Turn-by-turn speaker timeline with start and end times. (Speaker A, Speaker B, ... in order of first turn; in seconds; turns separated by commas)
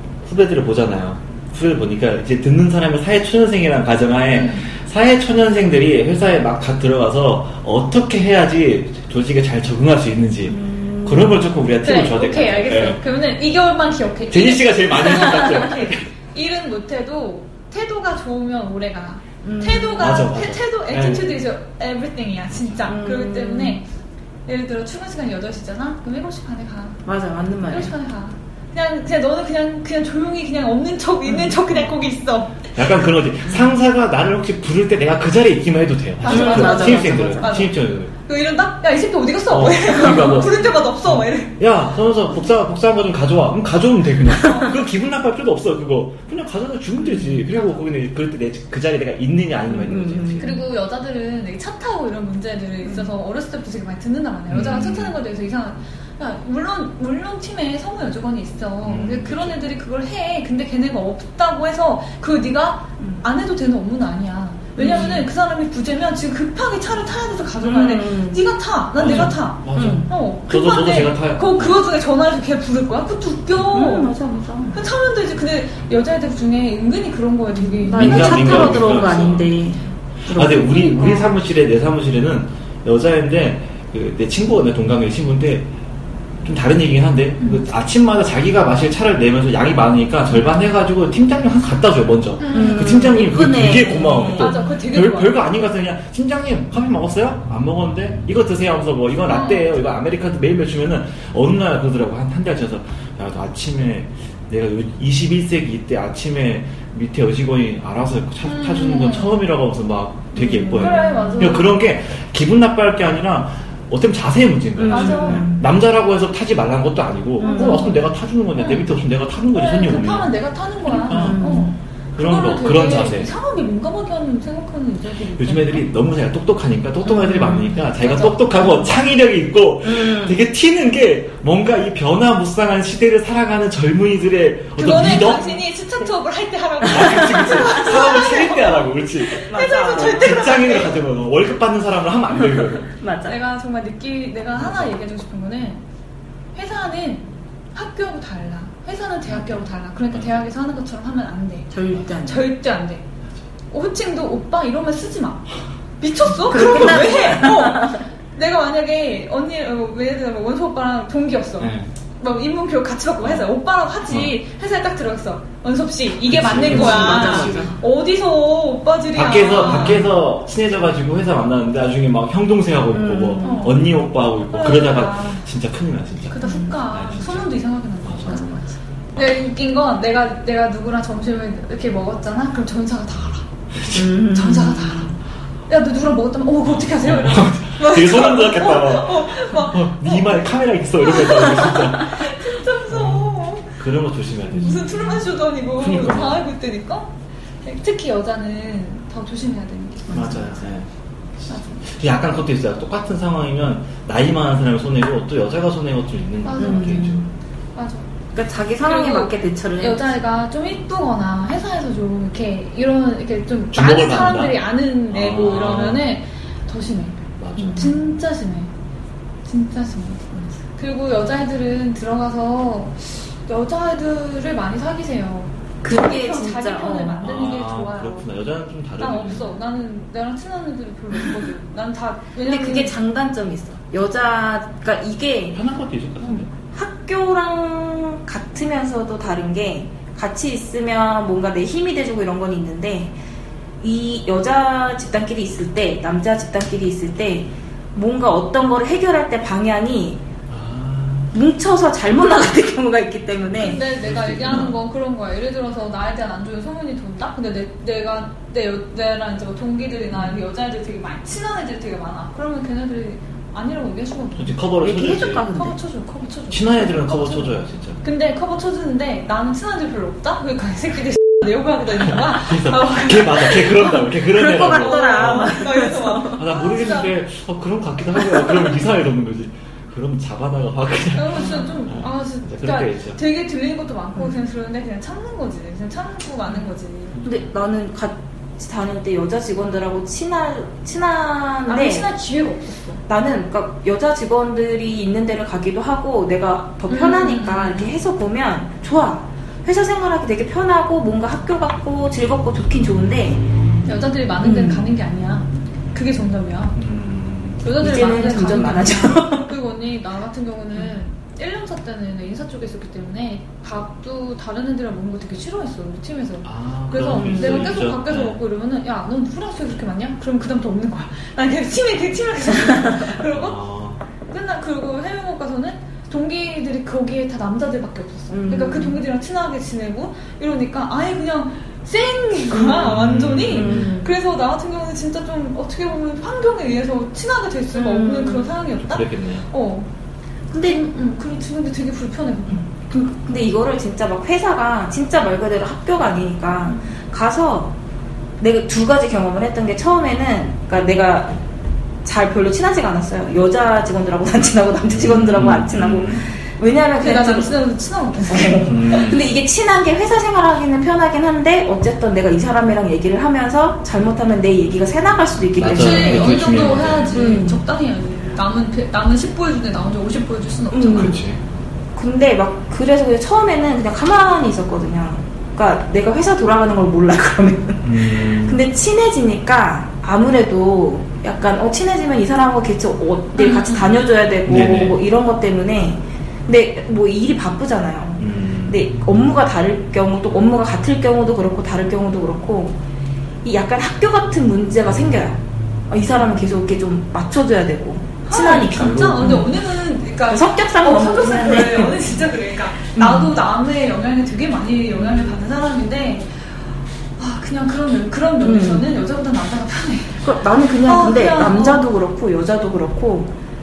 Speaker A: 0.2-13.0, Speaker B: 4.3-4.6, Speaker C: 10.5-11.5, Speaker B: 11.8-23.9, Speaker A: 14.3-16.1, Speaker C: 19.4-20.2, Speaker A: 20.0-21.3, Speaker A: 22.5-22.9, Speaker C: 22.9-23.8, Speaker B: 24.4-27.0, Speaker C: 27.1-27.9, Speaker B: 27.7-32.6, Speaker C: 31.3-31.5, Speaker A: 32.7-38.1, Speaker B: 36.2-41.6, Speaker C: 36.3-37.5, Speaker A: 39.5-50.5, Speaker C: 39.9-40.6, Speaker B: 44.4-44.7, Speaker C: 47.0-47.5, Speaker B: 47.5-47.8, Speaker C: 49.7-50.6, Speaker B: 50.4-74.1, Speaker C: 52.8-53.1, Speaker A: 54.5-55.2, Speaker A: 58.8-59.6, Speaker C: 64.8-65.2, Speaker A: 64.9-65.1, Speaker C: 67.6-68.4, Speaker A: 69.0-71.8, Speaker C: 69.1-70.1, Speaker C: 73.7-74.8, Speaker B: 74.7-78.8, Speaker C: 77.6-81.2, Speaker A: 77.9-79.5, Speaker A: 80.3-85.7, Speaker A: 86.4-120.3, Speaker B: 92.4-93.0, Speaker C: 92.5-94.6, Speaker B: 94.4-95.4, Speaker B: 99.3-99.7, Speaker B: 108.4-109.4, Speaker C: 110.3-111.5, Speaker B: 110.7-111.7, Speaker C: 114.8-115.6, Speaker B: 114.9-115.5, Speaker C: 117.4-117.9, Speaker B: 117.4-118.0, Speaker B: 118.6-118.8, Speaker B: 119.5-125.8, Speaker C: 120.9-121.8, Speaker A: 121.0-121.4, Speaker A: 122.1-123.3, Speaker A: 125.4-135.5, Speaker C: 127.0-127.8, Speaker B: 128.0-128.4, Speaker C: 128.5-128.9, Speaker C: 129.8-130.4, Speaker B: 134.8-140.9, Speaker A: 136.8-139.4, Speaker C: 137.0-137.7, Speaker C: 139.4-140.6, Speaker A: 140.0-142.9, Speaker C: 142.9-143.3, Speaker B: 143.2-145.8, Speaker A: 144.6-144.9, Speaker B: 146.5-153.0, Speaker A: 149.3-150.4, Speaker C: 151.7-152.5, Speaker B: 153.7-155.5, Speaker B: 156.0-170.0, Speaker C: 156.5-158.0, Speaker A: 161.6-161.9, Speaker A: 163.2-163.5, Speaker A: 164.1-164.3, Speaker A: 166.3-167.7, Speaker C: 166.6-167.8, Speaker A: 169.1-177.5, Speaker C: 169.7-170.0, Speaker C: 172.9-173.8, Speaker B: 173.4-173.9, Speaker B: 174.5-175.4, Speaker B: 176.3-178.6, Speaker C: 176.4-176.7, Speaker A: 178.0-178.4, Speaker C: 178.3-178.6, Speaker B: 179.1-185.2, Speaker A: 183.8-184.1, Speaker C: 183.9-185.1, Speaker B: 185.7-190.4, Speaker A: 186.6-192.3, Speaker B: 191.0-193.8, Speaker A: 192.9-195.0, Speaker B: 194.6-200.4, Speaker C: 194.7-195.2, Speaker A: 195.8-196.4, Speaker C: 200.1-200.5, Speaker A: 200.1-200.9, Speaker A: 201.4-207.2, Speaker B: 201.5-201.8, Speaker B: 206.4-207.2, Speaker C: 206.6-207.3, Speaker B: 207.8-208.1, Speaker C: 208.3-210.1, Speaker B: 208.8-218.7, Speaker A: 213.7-216.0, Speaker A: 217.4-217.9, Speaker C: 217.6-217.9, Speaker B: 219.4-228.2, Speaker C: 225.8-227.2, Speaker A: 227.2-229.5, Speaker B: 229.0-232.9, Speaker C: 232.4-235.6, Speaker A: 235.5-236.5, Speaker C: 236.6-243.1, Speaker C: 243.8-250.2, Speaker A: 250.5-251.3, Speaker C: 251.3-253.8, Speaker A: 253.6-254.8, Speaker B: 253.6-264.6, Speaker A: 264.4-265.5, Speaker C: 264.8-265.8, Speaker B: 265.4-274.0, Speaker A: 266.5-268.0, Speaker A: 272.1-275.6, Speaker C: 274.0-276.4, Speaker B: 274.6-277.1, Speaker A: 276.3-283.2, Speaker B: 281.1-287.2, Speaker C: 287.2-292.1, Speaker B: 291.7-293.0, Speaker C: 293.1-303.5, Speaker B: 296.9-297.9, Speaker B: 303.9-306.8, Speaker C: 304.4-304.9, Speaker A: 306.7-307.8, Speaker B: 307.6-323.6, Speaker C: 307.8-309.5, Speaker A: 316.4-318.4, Speaker C: 317.1-317.8, Speaker A: 323.2-324.0, Speaker B: 324.3-339.9, Speaker C: 328.3-329.0, Speaker A: 332.7-333.8, Speaker C: 333.5-334.1, Speaker C: 337.7-338.6, Speaker A: 338.8-339.4, Speaker C: 340.5-340.8, Speaker B: 340.6-342.6, Speaker C: 342.5-347.7, Speaker C: 348.4-351.4, Speaker C: 352.0-357.5, Speaker A: 354.9-356.3, Speaker B: 357.0-359.0, Speaker C: 358.3-366.4, Speaker A: 358.6-359.2, Speaker A: 365.6-367.3, Speaker B: 365.7-371.2, Speaker C: 367.1-367.6, Speaker C: 370.7-371.2, Speaker A: 370.9-371.4, Speaker C: 371.9-392.8, Speaker A: 377.8-378.6, Speaker B: 383.4-384.0, Speaker A: 384.5-385.0, Speaker A: 388.2-388.8, Speaker C: 393.4-399.5, Speaker B: 398.2-406.5, Speaker A: 398.7-399.4, Speaker C: 400.3-402.2, Speaker C: 402.9-403.3, Speaker C: 405.0-405.3, Speaker B: 407.2-410.2, Speaker C: 408.4-408.9, Speaker C: 410.2-413.3, Speaker B: 410.8-411.8